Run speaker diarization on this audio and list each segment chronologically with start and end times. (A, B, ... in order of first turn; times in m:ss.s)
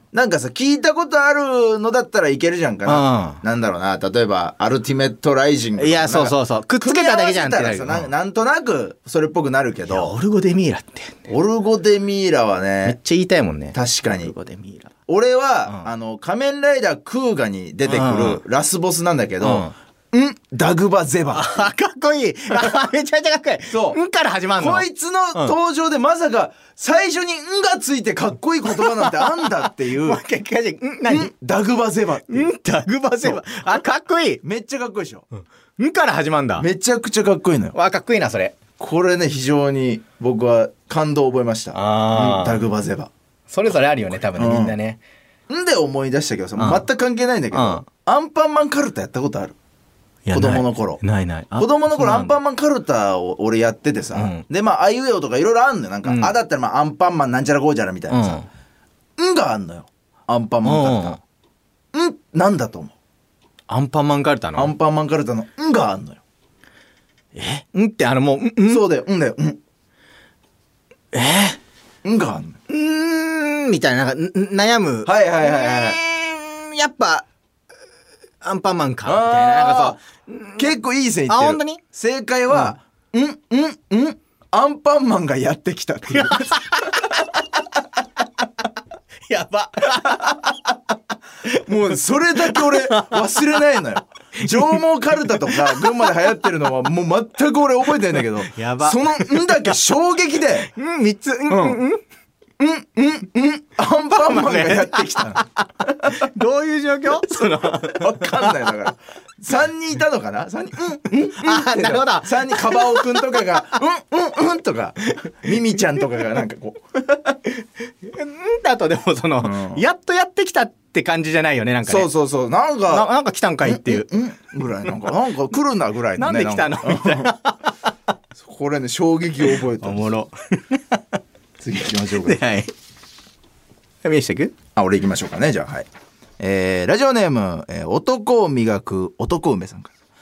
0:00.1-0:10.1 A
0:02.8-0:03.4 B
0:05.8-0:08.1 B
0:09.8-0:11.3 B
0:11.3-0:13.0 A
0:12.8-0:14.9 B
0:13.7-0:14.3 A
0:15.1-0:21.7 A
0:17.9-0:18.4 B
0:19.4-0:19.7 B
0:21.3-0:25.5 B
0:23.7-0:24.0 A
0:24.6-0:30.2 A
0:28.6-0:31.3 B
0:31.1-0:32.5 A
0:32.3-0:34.4 B
0:33.2-0:33.6 A
0:34.4-0:35.3 A
0:35.8-0:36.6 B
0:36.6-0:37.8 A
0:37.7-0:38.6 B
0:38.8-0:43.1 A
0:41.7-0:42.6 B
0:43.5-0:45.0 B
0:44.2-0:44.8 A
0:45.5-0:49.5 A
0:46.6-0:46.8 B
0:47.5-0:47.8 B
0:50.2-0:52.4 B
0:50.3-0:51.0 A
0:51.6-0:58.4 A
0:54.1-0:54.4 B
0:56.0-0:56.3 B
0:58.1-0:58.5 B
0:59.2-1:01.2 A
1:00.6-1:01.2 B
1:01.9-1:02.9 A
1:03.7-1:04.7 B
1:04.6-1:06.2 A
1:07.3-1:08.8 B
1:08.7-1:09.6 A
1:11.1-1:11.6 B
1:12.0-1:12.6 A
1:12.7-1:17.2 B
1:15.0-1:16.0 A
1:18.4-1:20.8 B
1:19.0-1:20.0 A
1:20.6-1:26.6 A
1:21.3-1:21.8 B
1:26.1-1:27.4 B
1:29.3-1:30.6 B
1:31.5-1:33.6 B
1:31.6-1:40.7 A
1:34.5-1:36.2 B
1:38.1-1:39.8 B
1:40.6-1:42.0 B
1:41.5-1:41.8 A
1:42.6-1:45.4 A
1:44.2-1:48.6 B
1:47.4-1:56.8 A
1:51.2-1:53.8 B
1:57.6-2:02.1 B
1:59.4-1:59.8 A
2:01.8-2:03.1 A
2:02.9-2:04.1 B
2:03.6-2:07.4 A
2:06.2-2:07.6 B
2:08.4-2:10.1 A
2:09.8-2:11.0 B
2:11.6-2:12.4 A
2:12.1-2:12.7 B
2:14.0-2:14.5 B
2:14.8-2:15.9 A
2:16.4-2:19.9 A